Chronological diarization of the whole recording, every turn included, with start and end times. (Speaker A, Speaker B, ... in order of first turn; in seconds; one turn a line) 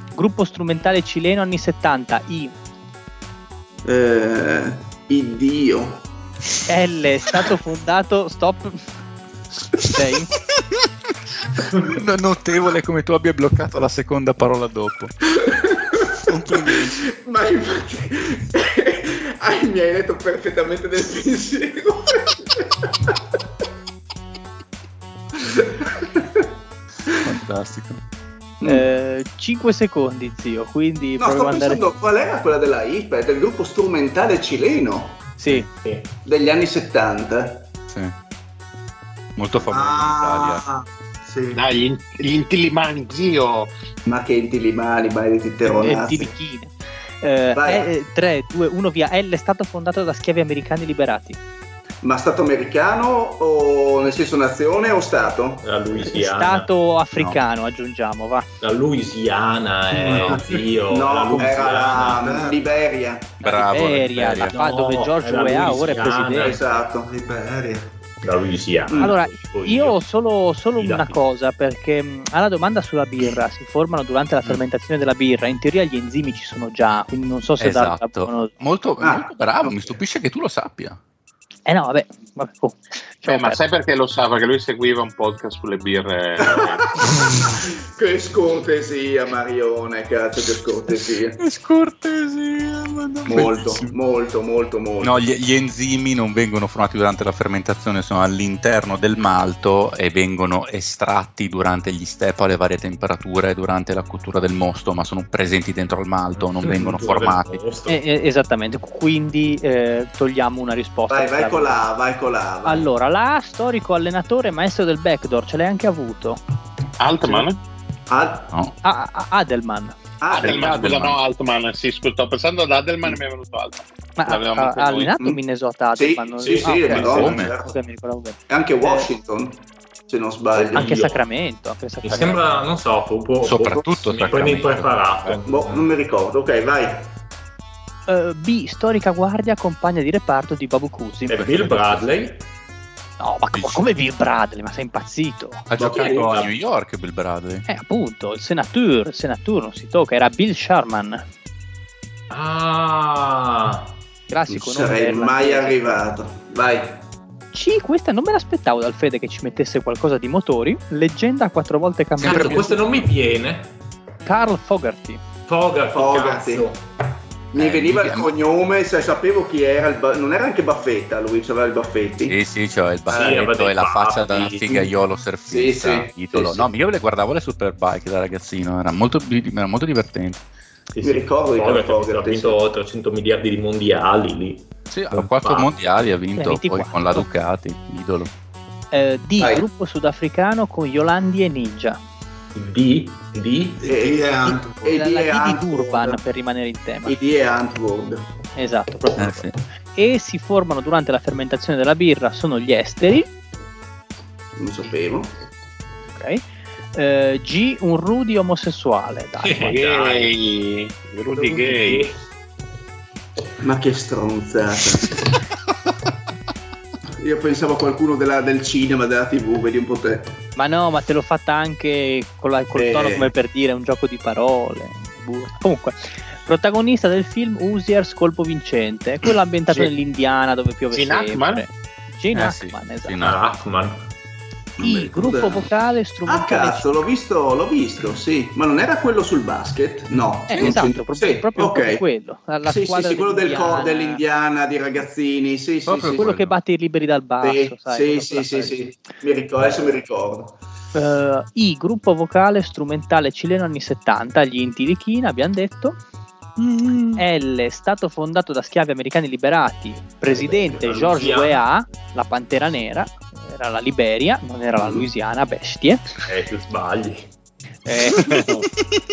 Speaker A: 0.1-2.5
Speaker B: 3.8-6.0
Speaker A: 6.7-8.8
Speaker A: 9.8-10.3
Speaker C: 11.7-15.1
Speaker B: 15.4-16.1
Speaker C: 16.3-17.0
Speaker B: 16.7-23.1
Speaker B: 25.4-26.4
Speaker C: 27.2-28.0
Speaker B: 28.6-28.9
Speaker A: 28.6-31.8
Speaker B: 31.2-35.3
Speaker A: 35.4-35.7
Speaker B: 36.2-37.7
Speaker C: 39.4-40.6
Speaker D: 39.7-41.6
Speaker E: 41.5-43.7
Speaker B: 44.0-46.3
Speaker A: 45.6-51.4
Speaker B: 47.5-47.9
Speaker B: 52.0-55.7
Speaker F: 55.6-56.7
Speaker A: 56.0-58.5
Speaker F: 58.6-62.5
Speaker D: 59.9-60.8
Speaker B: 60.2-63.4
Speaker D: 61.4-62.7
Speaker C: 63.4-64.5
Speaker A: 63.4-66.5
Speaker F: 64.3-66.8
Speaker B: 66.4-67.1
Speaker D: 67.0-67.9
Speaker F: 68.2-70.0
Speaker A: 69.0-78.5
Speaker F: 70.8-71.2
Speaker C: 77.6-81.0
Speaker B: 79.0-79.3
Speaker A: 81.7-83.6
Speaker E: 83.3-86.8
Speaker B: 86.4-91.4
Speaker C: 91.4-93.9
Speaker B: 93.3-95.2
Speaker C: 95.0-107.6
Speaker F: 106.3-108.0
Speaker A: 107.9-111.8
Speaker B: 111.1-112.9
Speaker A: 112.6-116.4
Speaker E: 117.0-117.6
Speaker A: 117.2-117.4
Speaker B: 118.1-118.5
Speaker A: 118.8-120.0
Speaker B: 120.2-121.1
Speaker E: 120.3-125.1
Speaker C: 120.8-121.1
Speaker A: 124.2-129.1
Speaker B: 126.0-127.7
Speaker C: 126.7-127.5
Speaker B: 128.5-130.9
Speaker F: 130.5-131.2
Speaker A: 130.7-132.4
Speaker F: 132.0-135.9
Speaker C: 133.4-135.3
Speaker B: 135.4-137.1
Speaker A: 138.1-141.4
Speaker F: 141.3-142.4
Speaker C: 141.3-142.1
Speaker A: 143.2-145.7
Speaker C: 143.5-143.8
Speaker C: 145.7-147.6
Speaker B: 145.8-146.5
Speaker F: 145.8-146.5
Speaker A: 147.7-151.2
Speaker F: 152.3-153.9
Speaker A: 154.3-156.0
Speaker B: 154.5-157.0
Speaker A: 157.5-162.8
Speaker C: 162.2-162.8
Speaker F: 162.2-163.7
Speaker A: 164.2-165.2
Speaker F: 165.5-166.8
Speaker B: 165.9-166.7
Speaker B: 167.5-172.3
Speaker C: 167.5-168.3
Speaker C: 172.2-180.4
Speaker F: 173.1-174.6
Speaker B: 173.1-173.4
Speaker B: 174.7-174.9
Speaker B: 175.5-176.7
Speaker F: 180.9-185.7
Speaker B: 181.0-182.6
Speaker C: 184.9-188.3
Speaker A: 186.4-187.3
Speaker A: 188.9-192.0
Speaker B: 189.4-189.6
Speaker F: 192.5-193.8
Speaker D: 193.8-194.8
Speaker B: 193.8-196.2
Speaker A: 194.5-197.2
Speaker B: 197.0-198.2
Speaker A: 198.6-203.3
Speaker C: 199.2-199.5
Speaker B: 204.6-205.3
Speaker A: 206.2-206.4
Speaker A: 206.9-209.8
Speaker F: 209.4-210.3
Speaker E: 209.7-212.1
Speaker F: 211.3-212.2
Speaker B: 213.6-215.2
Speaker B: 217.2-220.4
Speaker A: 220.6-233.2
Speaker B: 222.7-223.3
Speaker E: 230.9-231.7
Speaker C: 232.3-233.4
Speaker F: 233.2-234.0
Speaker A: 234.8-237.0
Speaker B: 234.8-235.7
Speaker B: 236.3-242.0
Speaker A: 240.5-244.2
Speaker B: 242.6-246.3
Speaker C: 245.9-246.5
Speaker A: 246.1-248.8
Speaker B: 247.4-250.6
Speaker A: 250.9-256.0
Speaker A: 257.1-266.1
Speaker F: 260.8-261.6
Speaker F: 266.2-267.2
Speaker A: 267.9-268.6